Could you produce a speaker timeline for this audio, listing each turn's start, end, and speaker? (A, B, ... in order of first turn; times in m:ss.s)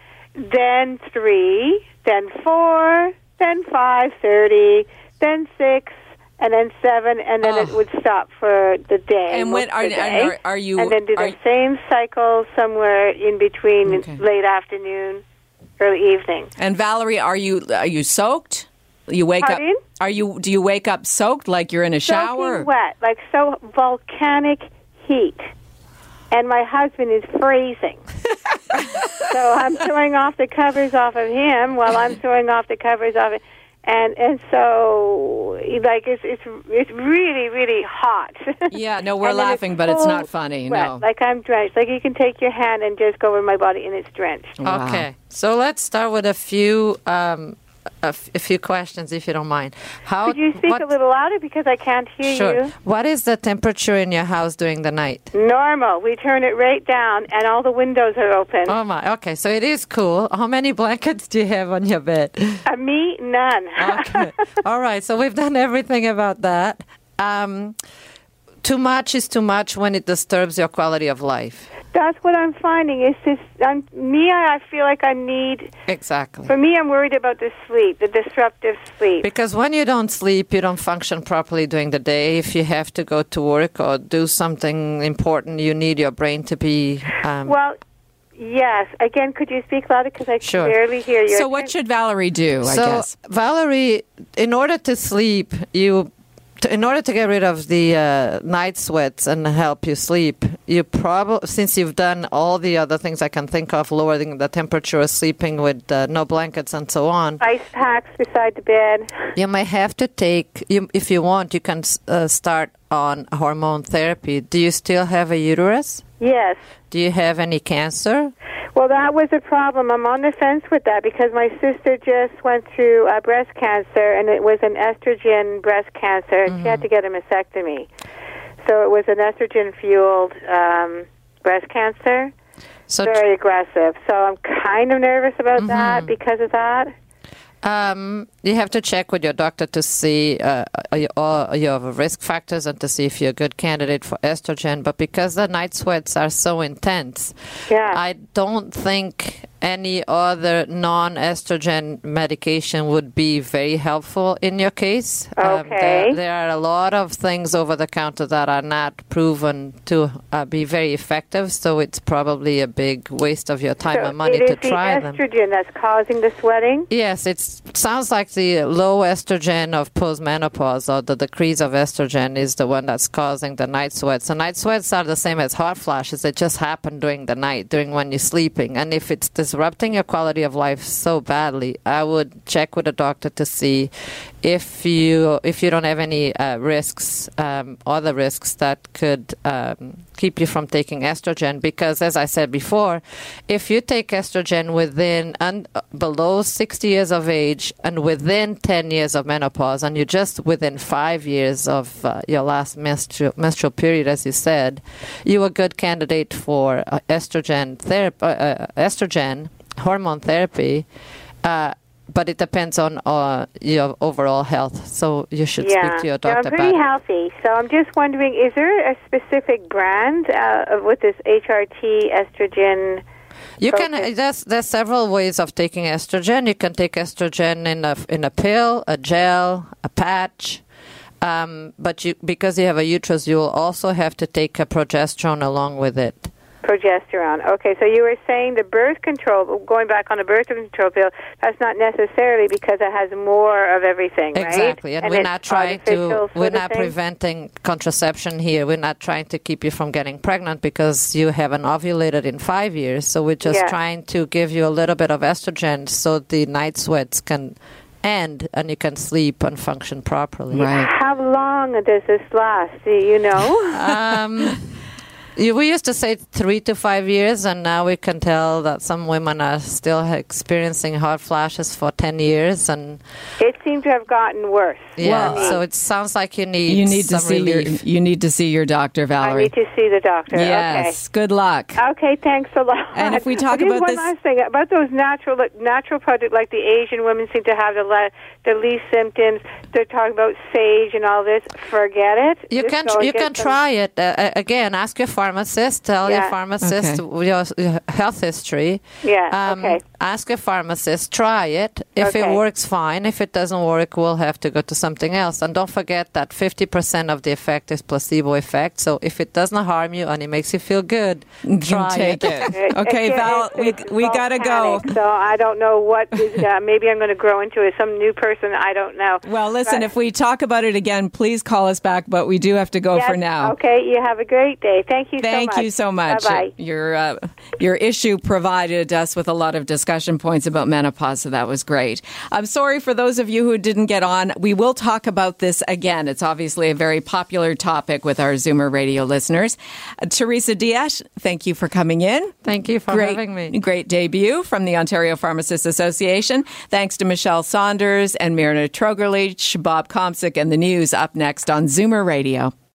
0:00.4-0:15.2 A
0:07.4-0:07.8 B
0:09.3-0:11.4 B
0:13.8-0:14.2 B
0:15.8-0:16.5 A
0:16.6-0:22.7 B
0:19.4-0:19.8 A
0:22.0-0:25.5 A
0:26.3-0:28.0 A
0:29.2-0:44.5 A
0:38.7-0:41.0 B
0:44.6-0:45.0 B
0:44.6-0:50.8 C
0:50.2-0:52.7 A
0:52.2-0:55.3 C
0:55.3-0:58.7 A
0:58.7-1:02.6 C
1:02.6-1:04.3 A
1:03.8-1:07.8 C
1:08.6-1:11.7 C
1:11.9-1:15.7 A
1:15.9-1:16.5 C
1:16.5-1:19.2 A
1:19.2-1:27.5 C
1:27.4-1:27.8 A
1:28.4-1:31.7 A
1:30.4-1:30.7 C
1:31.3-1:33.1 B
1:32.6-1:36.1 C
1:36.6-1:47.4 C
1:47.4-1:49.1 A
1:49.3-1:56.0 C
1:56.2-1:56.6 A
1:56.9-1:58.3 C
1:58.7-2:07.9 A
2:06.5-2:06.8 C
2:08.6-2:12.3 A
2:12.9-2:13.2 C
2:13.0-2:16.9 A
2:15.6-2:16.1 C
2:17.6-2:27.4 C
2:27.7-2:28.0 A
2:27.9-2:45.2 C
2:35.4-2:36.2 A
2:43.9-2:46.9 A
2:46.9-3:03.9 C
3:04.4-3:30.8 C
3:31.4-3:36.8 C
3:35.6-3:43.0 A
3:43.6-3:50.6 C
3:43.7-3:44.1 A
3:51.2-3:56.3 C
3:56.6-4:06.9 A
4:04.3-4:20.7 C
4:13.4-4:13.7 A
4:20.5-4:20.9 B
4:20.6-4:23.9 A
4:23.7-4:24.7 C
4:25.4-4:33.0 C
4:33.4-4:35.6 A
4:35.0-4:37.8 C
4:35.0-4:35.6 B
4:36.7-4:39.5 B
4:39.2-4:40.9 A
4:40.3-4:41.8 B
4:41.8-4:53.5 A
4:42.9-4:44.1 B
4:52.5-5:12.6 C
4:56.0-4:56.3 A
4:56.6-4:57.0 B
4:59.0-4:59.8 A
5:02.0-5:02.4 A
5:11.4-5:14.9 B
5:12.5-5:19.8 A
5:19.2-5:23.5 B
5:22.9-5:26.5 A
5:25.2-5:42.3 B
5:42.4-5:43.6 C
5:42.9-5:52.5 B